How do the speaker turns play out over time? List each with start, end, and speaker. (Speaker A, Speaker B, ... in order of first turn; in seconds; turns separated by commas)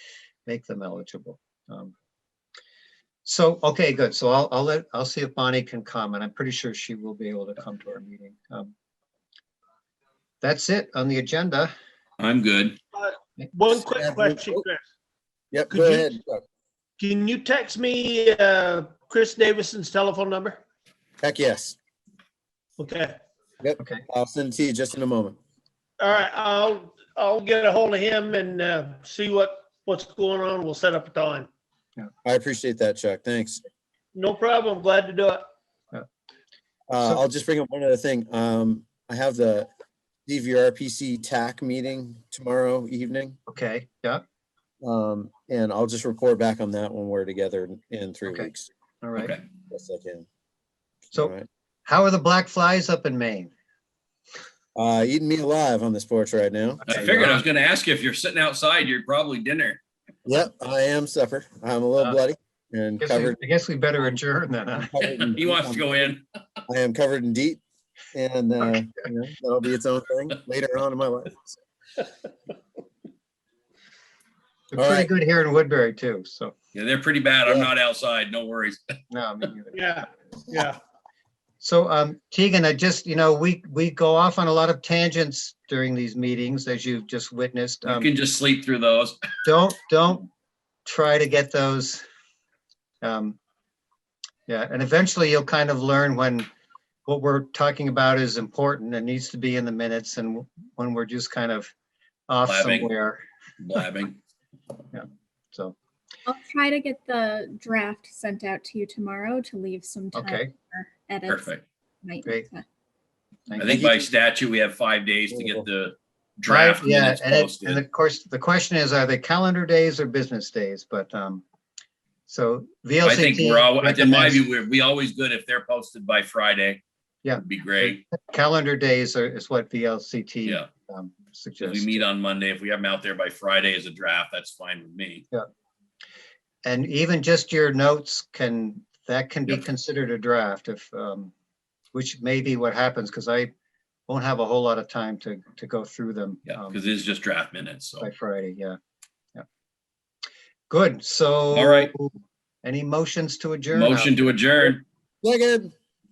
Speaker A: 0.5-1.9, Speaker A: 3.2-8.7, Speaker A: 10.4-11.7, Speaker B: 12.2-12.8, Speaker C: 12.9-14.8, Speaker D: 13.8-14.6, Speaker D: 15.5-16.4, Speaker C: 15.7-16.2, Speaker C: 17.0-20.6, Speaker D: 21.2-21.8, Speaker C: 22.8-23.2, Speaker D: 23.6-25.4, Speaker C: 26.0-31.5, Speaker D: 32.2-33.6, Speaker C: 34.1-35.5, Speaker D: 36.9-39.7, Speaker D: 40.3-43.4, Speaker A: 43.5-44.2, Speaker D: 44.8-48.7, Speaker A: 49.0-49.3, Speaker B: 49.2-49.4, Speaker D: 49.7-50.3, Speaker D: 51.1-51.5, Speaker A: 51.9-53.5, Speaker D: 54.8-57.4, Speaker B: 56.9-59.8, Speaker D: 60.3-63.4, Speaker A: 63.0-64.9, Speaker D: 64.8-66.1, Speaker B: 65.0-66.2, Speaker D: 66.7-67.6, Speaker D: 68.1-71.6, Speaker A: 74.7-76.5, Speaker D: 74.8-75.1, Speaker B: 76.7-78.9, Speaker A: 79.1-80.0, Speaker C: 79.7-80.8, Speaker A: 81.6-88.1, Speaker B: 87.8-89.2, Speaker A: 89.5-90.3, Speaker A: 90.9-92.0, Speaker A: 93.0-93.4, Speaker A: 94.5-96.5, Speaker A: 97.1-101.7, Speaker A: 102.3-103.2, Speaker B: 102.5-102.9, Speaker B: 103.6-104.2, Speaker A: 104.9-105.8, Speaker E: 106.3-112.7, Speaker A: 110.1-110.5, Speaker B: 111.3-111.6, Speaker A: 113.5-114.1, Speaker B: 113.6-117.8, Speaker D: 115.3-115.6, Speaker A: 116.5-121.4, Speaker A: 122.3-124.4, Speaker B: 123.0-126.8, Speaker A: 127.2-132.0, Speaker B: 127.4-128.0, Speaker B: 131.6-135.3, Speaker A: 136.6-141.3, Speaker A: 141.9-143.5, Speaker A: 144.1-146.8, Speaker B: 146.5-148.1, Speaker A: 148.0-148.8, Speaker A: 150.7-154.4, Speaker B: 151.5-151.9, Speaker B: 153.7-154.8, Speaker D: 155.2-155.7